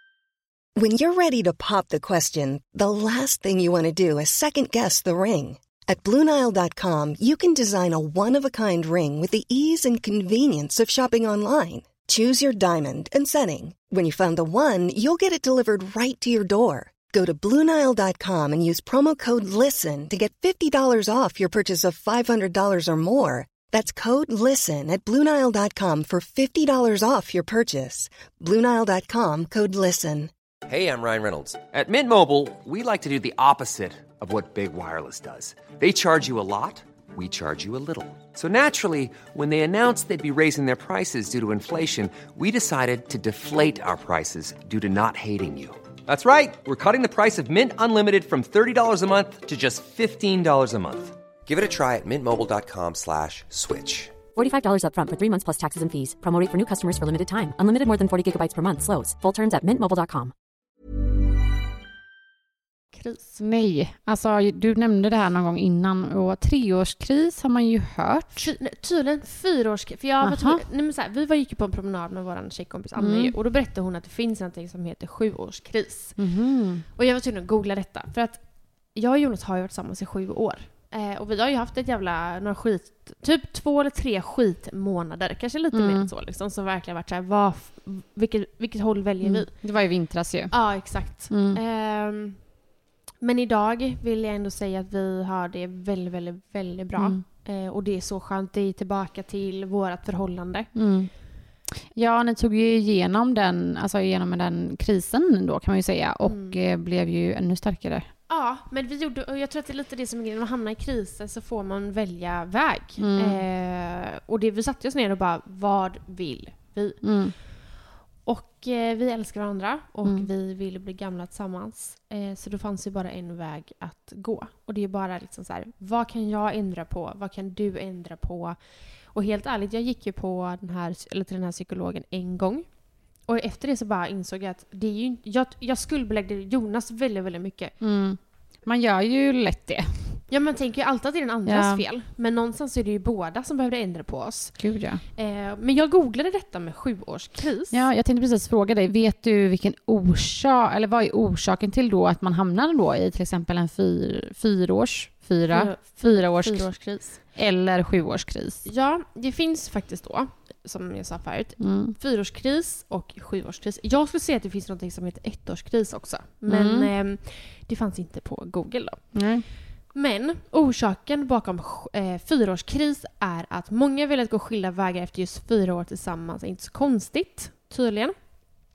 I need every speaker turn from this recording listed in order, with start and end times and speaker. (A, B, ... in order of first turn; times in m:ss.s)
0:00.7-0:30.3 A
0:30.7-0:54.2 B
0:54.3-1:00.3 C
1:02.9-1:03.4 D
1:03.4-1:08.5 E
1:08.3-1:16.2 D
1:10.2-1:10.6 E
1:13.0-1:13.3 E
1:16.2-1:16.8 E
1:16.9-1:29.5 D
1:25.7-1:26.1 E
1:29.2-1:31.6 E
1:30.5-1:32.5 D
1:33.2-1:40.7 D
1:37.0-1:37.2 E
1:40.7-1:41.1 E
1:41.9-1:48.1 E
1:46.2-1:46.6 D
1:48.3-1:57.6 D
1:53.0-1:53.4 E
1:57.0-1:57.3 E
1:58.2-2:08.6 D
2:00.0-2:00.3 E
2:09.1-2:12.6 D
2:13.2-2:17.7 D
2:17.8-2:20.2 E
2:20.3-2:24.6 D
2:21.4-2:21.8 E
2:24.6-2:25.0 E
2:25.1-2:27.8 D
2:27.7-2:38.6 E
2:35.5-2:37.2 D
2:38.6-2:49.2 D
2:41.6-2:41.9 E
2:46.4-2:46.9 E
2:49.1-2:49.4 E
2:49.9-2:58.1 D